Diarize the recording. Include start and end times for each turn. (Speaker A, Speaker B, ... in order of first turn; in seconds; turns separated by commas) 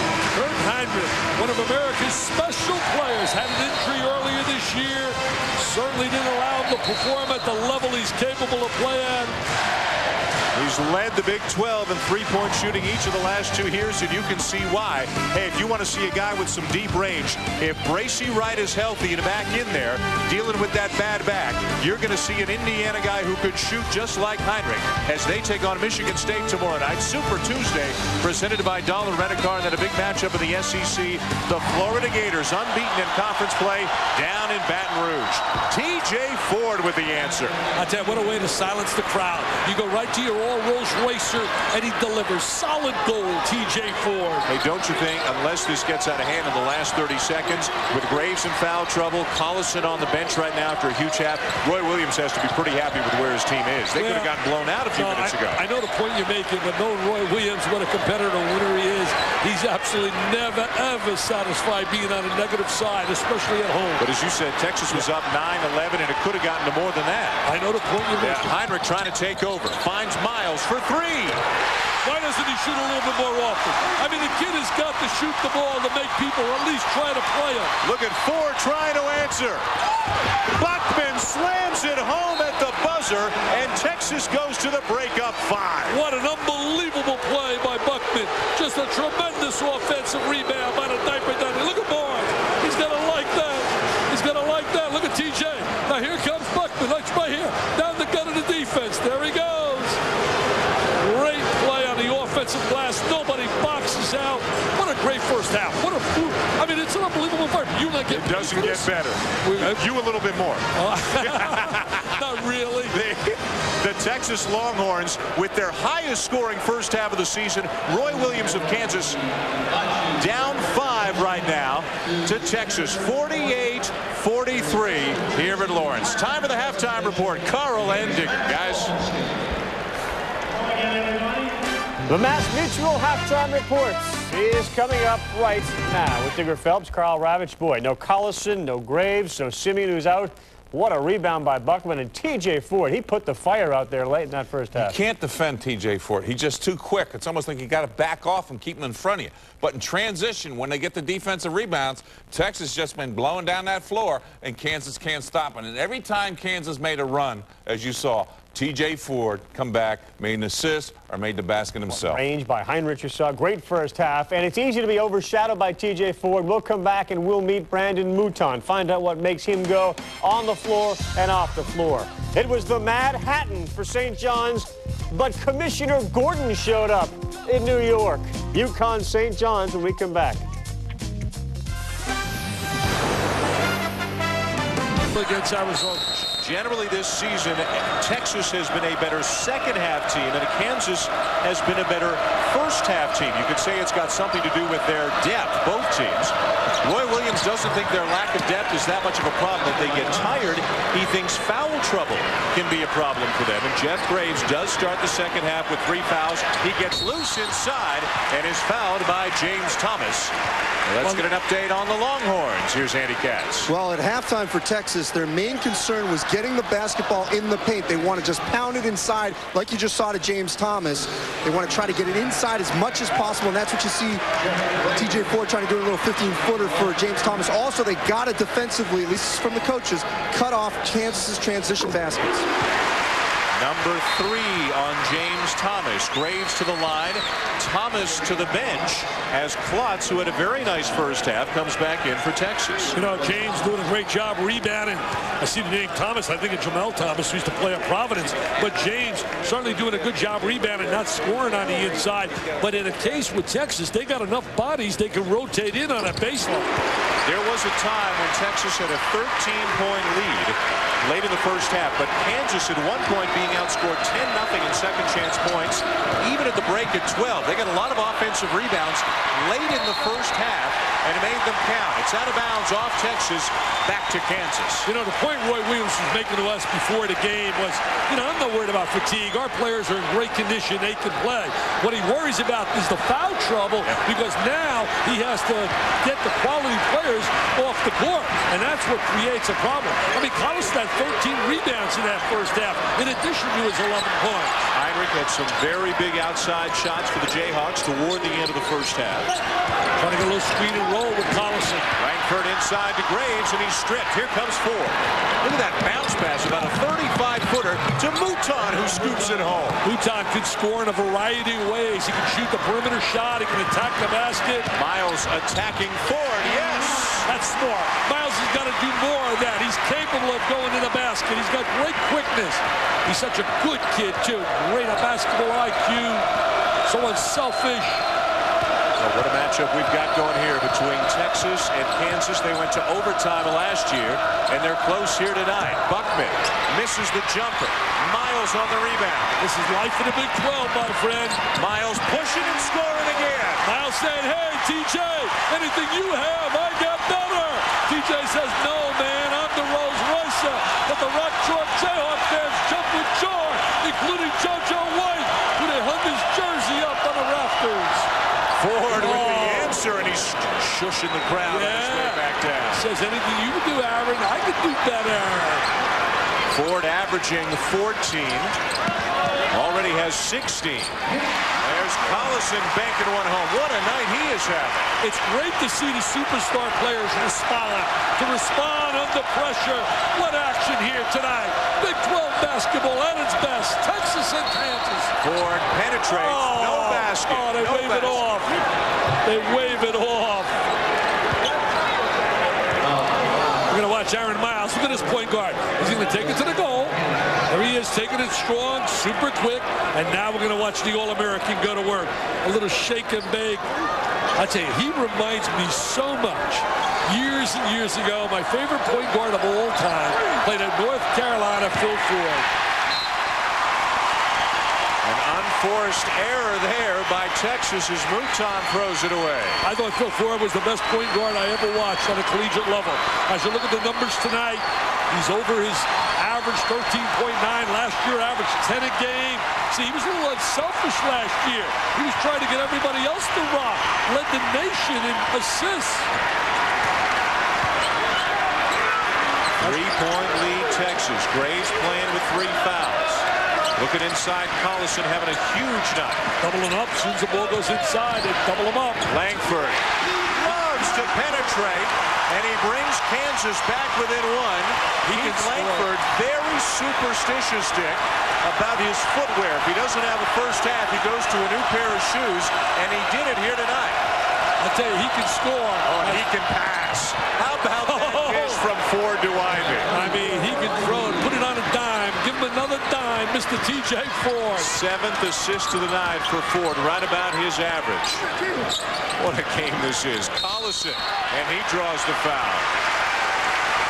Speaker A: 0.3-9.4, Speaker B: 10.5-37.6, Speaker A: 37.8-44.4, Speaker B: 44.5-55.6, Speaker A: 54.0-54.3, Speaker A: 54.9-64.1, Speaker B: 64.0-67.4, Speaker A: 67.4-68.5, Speaker B: 68.2-71.4, Speaker A: 72.0-77.7, Speaker B: 77.8-79.6, Speaker B: 80.5-86.0, Speaker A: 85.9-100.0, Speaker A: 101.0-108.9, Speaker B: 108.1-112.1, Speaker A: 109.4-109.8, Speaker A: 110.8-113.0, Speaker B: 112.9-119.2, Speaker B: 120.2-128.9, Speaker C: 132.1-145.0, Speaker D: 144.7-162.2, Speaker C: 162.0-180.4, Speaker A: 185.1-186.2, Speaker B: 186.4-210.3, Speaker B: 210.9-213.7, Speaker E: 213.7-224.2, Speaker E: 224.9-232.4, Speaker B: 233.5-242.9, Speaker A: 242.9-256.7, Speaker B: 257.2-274.9, Speaker A: 274.8-294.6, Speaker B: 294.7-299.3, Speaker A: 300.0-301.9, Speaker B: 302.0-309.8, Speaker A: 309.8-314.7, Speaker B: 314.7-317.3, Speaker A: 317.2-326.2, Speaker A: 326.9-328.1, Speaker B: 329.0-339.3, Speaker A: 339.4-341.4, Speaker B: 341.6-343.6, Speaker A: 343.6-358.1, Speaker B: 358.6-362.8, Speaker A: 358.9-359.7, Speaker A: 361.5-365.6, Speaker B: 366.5-368.6, Speaker B: 369.5-371.0, Speaker B: 371.6-374.9, Speaker A: 375.0-385.1, Speaker B: 385.2-388.2, Speaker A: 386.1-388.6, Speaker A: 389.2-390.6, Speaker A: 393.7-396.9, Speaker A: 397.5-403.7, Speaker A: 404.3-412.4, Speaker B: 415.0-419.6, Speaker A: 419.6-436.1, Speaker B: 439.6-446.3, Speaker A: 446.4-449.0, Speaker B: 449.1-464.0, Speaker A: 455.1-455.9, Speaker A: 464.6-466.3, Speaker B: 465.9-469.9, Speaker A: 467.9-468.6, Speaker A: 469.9-474.7, Speaker B: 474.6-478.3, Speaker B: 479.2-482.7